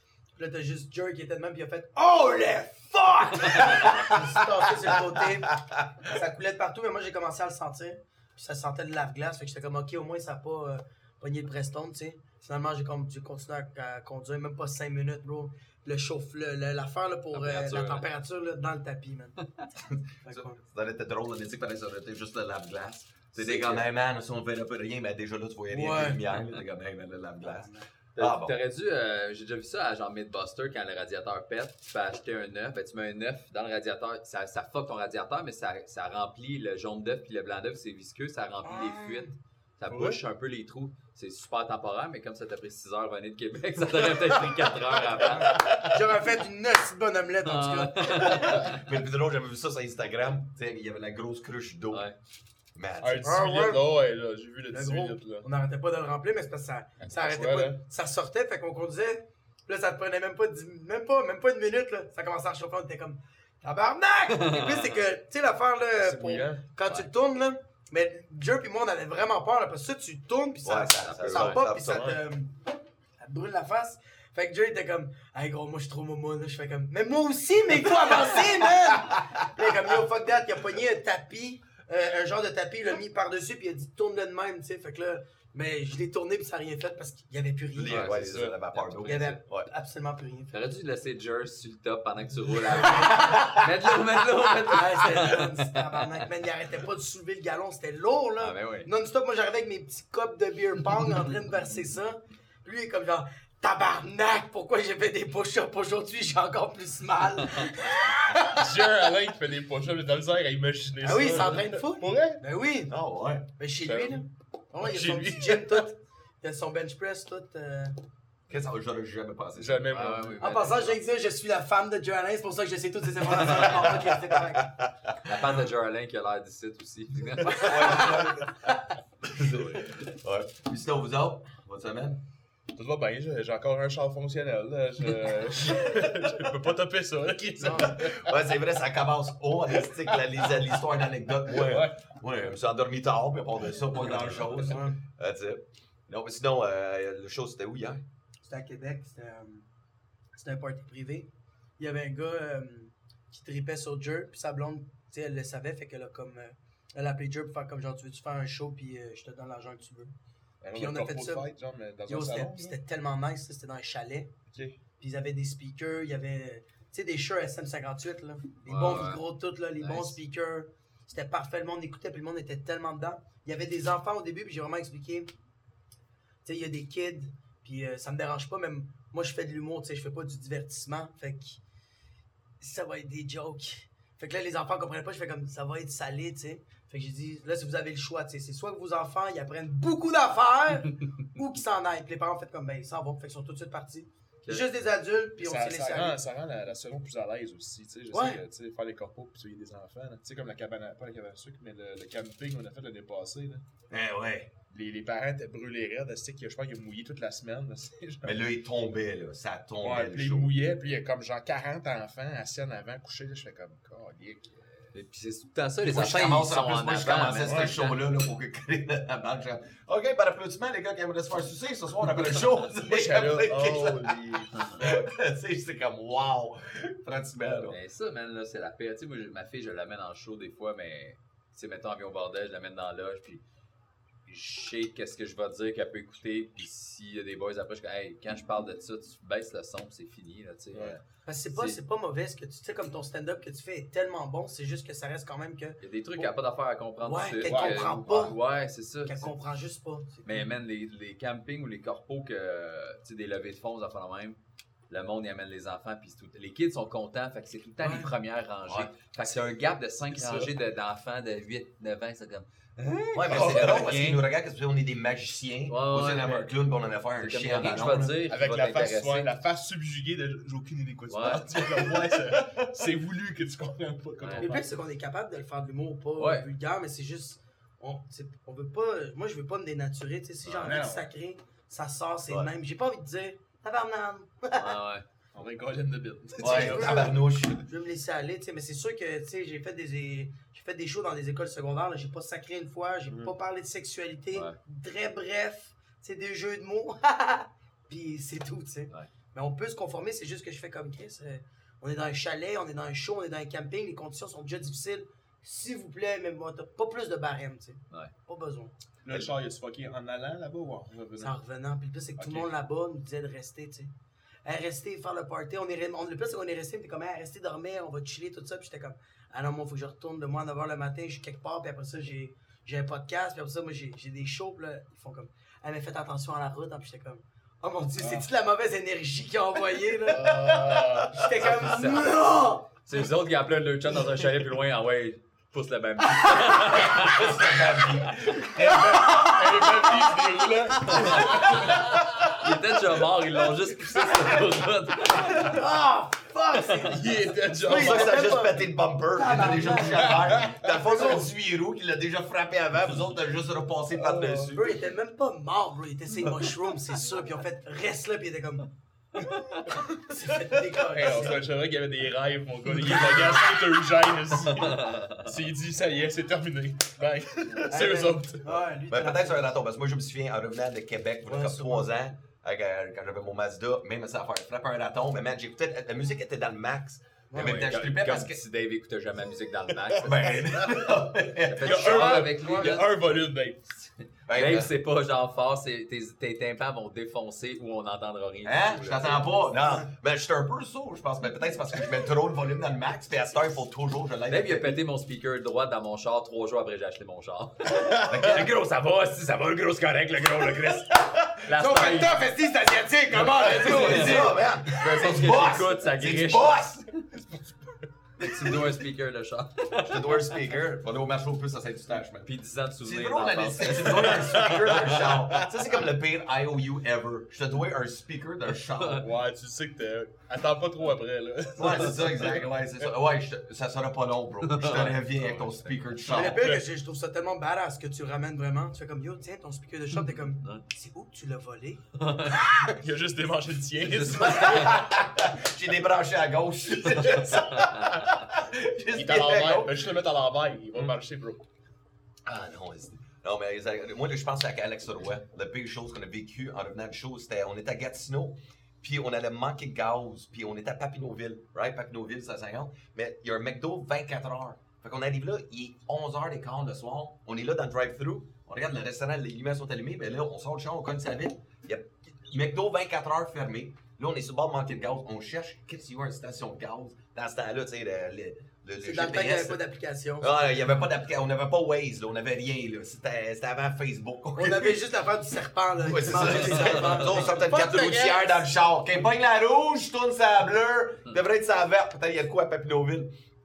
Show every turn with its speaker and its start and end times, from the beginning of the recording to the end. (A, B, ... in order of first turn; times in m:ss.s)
0:00.4-0:19.4 A
0:03.7-0:04.3 B
0:05.0-0:06.0 B
0:17.3-0:18.1 C
0:19.8-0:28.5 B
0:20.2-0:20.6 A
0:23.3-0:23.8 C
0:25.7-0:26.2 A
0:27.4-0:27.8 A
0:28.2-0:45.6 C
0:38.6-0:39.3 A
0:39.9-0:40.2 D
0:45.3-0:48.3 A
0:47.4-0:48.8 C
0:48.0-0:52.0 B
0:51.9-0:52.2 C
0:52.8-0:53.3 B
0:53.0-0:55.5 D
0:53.2-0:53.9 A
0:54.7-1:12.6 A
0:57.0-0:57.8 D
1:04.3-1:04.9 C
1:06.0-1:06.6 D
1:10.6-1:12.2 B
1:11.0-1:11.6 C
1:11.9-1:12.2 D
1:13.2-1:28.2 A
1:27.7-1:29.7 B
1:27.8-1:29.2 C
1:28.1-1:28.6 D
1:29.0-1:30.5 A
1:30.5-1:36.0 C
1:32.8-1:33.6 A
1:34.6-1:49.0 A
1:38.4-1:38.9 C
1:48.5-1:52.4 D
1:51.0-1:52.9 A
1:52.9-1:53.5 B
1:53.6-1:58.0 A
1:53.8-1:54.2 D
1:54.8-1:55.9 D
1:58.5-1:59.9 B
1:59.6-2:00.4 D
1:59.9-2:01.0 C
2:00.4-2:04.7 A
2:03.6-2:03.9 C
2:04.6-2:05.3 B
2:05.2-2:08.2 C
2:07.4-2:08.9 A
2:07.6-2:12.2 B
2:12.7-2:18.4 D
2:17.6-2:17.9 A
2:17.6-2:28.0 B
2:19.8-2:20.5 D
2:21.4-2:22.0 D
2:24.2-2:25.0 A
2:28.4-2:29.6 A
2:30.4-2:40.1 A
2:40.6-2:42.8 D
2:40.7-2:41.5 A
2:42.1-2:44.3 A
2:44.5-2:44.8 D
2:45.0-2:55.3 A
2:48.7-2:49.2 C
2:49.8-2:50.1 C
2:56.4-3:01.6 A
3:02.6-3:16.2 A
3:15.4-3:23.6 D
3:18.1-3:18.4 A
3:23.9-3:24.5 B
3:24.7-3:28.4 D
3:28.2-3:30.6 B
3:29.8-3:34.7 D
3:34.9-3:38.0 C
3:35.8-3:47.8 B
3:37.4-3:37.8 D
3:42.3-3:45.0 D
3:47.7-3:53.4 C
3:54.3-4:01.0 C
4:00.7-4:01.0 D
4:01.2-4:06.3 A
4:01.5-4:01.8 C
4:05.8-4:09.3 C
4:07.0-4:08.4 A
4:07.4-4:08.3 D
4:09.1-4:10.5 A
4:10.2-4:14.4 C
4:14.9-4:24.2 C
4:17.8-4:18.1 A
4:18.6-4:18.9 B
4:20.1-4:20.5 D
4:23.1-4:28.2 B
4:23.3-4:23.9 D
4:25.7-4:26.5 C
4:27.2-4:29.3 C
4:28.3-4:34.8 D
4:31.1-4:31.9 C
4:34.2-4:34.5 C
4:34.4-4:44.8 A
4:36.2-4:36.4 C
4:40.4-4:41.1 D
4:44.6-4:45.0 C
4:45.3-4:47.2 D
4:46.4-4:47.7 B
4:46.4-5:08.7 A
5:09.0-5:11.4 D
5:11.2-5:13.9 A
5:12.2-5:12.5 D
5:14.4-5:32.7 A
5:28.0-5:28.2 D
5:30.0-5:31.3 D
5:31.4-5:38.4 C
5:36.6-5:38.5 B
5:38.4-5:43.1 D
5:39.0-5:39.8 A
5:40.8-5:45.6 C
5:41.1-5:41.3 A
5:44.0-5:44.4 D
5:45.2-5:51.3 A
5:46.8-5:48.3 D
5:47.6-5:54.8 B
5:49.8-5:50.6 D
5:53.9-5:54.5 D
5:54.5-5:58.7 A
5:59.2-6:01.4 A
6:00.8-6:08.6 D
6:02.9-6:03.3 A
6:04.5-6:05.3 C
6:07.6-6:09.4 A
6:08.9-6:18.4 B
6:11.2-6:11.9 A
6:17.3-6:17.7 A
6:17.4-6:20.5 C
6:19.7-6:21.0 D
6:20.0-6:22.3 B
6:21.3-6:22.9 C
6:21.6-6:23.6 D
6:22.3-6:22.8 A
6:24.3-6:24.7 B
6:24.3-6:29.5 C
6:28.4-6:34.8 B
6:34.3-6:42.2 C
6:38.1-6:38.6 B
6:41.5-6:44.4 A
6:43.2-6:47.4 B
6:43.2-6:46.7 C
6:48.2-6:48.8 B
6:48.2-6:50.4 C
6:49.8-6:59.1 B
6:52.2-6:55.2 C
6:53.9-6:55.5 D
6:58.8-7:02.5 D
7:01.6-7:06.5 B
7:04.4-7:05.4 C
7:06.1-7:06.6 D
7:06.1-7:12.7 A
7:12.0-7:12.4 C
7:12.6-7:14.8 D
7:13.8-7:14.8 C
7:14.1-7:19.9 B
7:16.8-7:17.9 D
7:18.9-7:21.4 D
7:22.3-7:49.6 B
7:48.8-7:50.3 A
7:50.2-7:54.8 B
7:54.4-7:58.4 A
7:55.8-8:03.1 B
7:56.2-7:57.2 C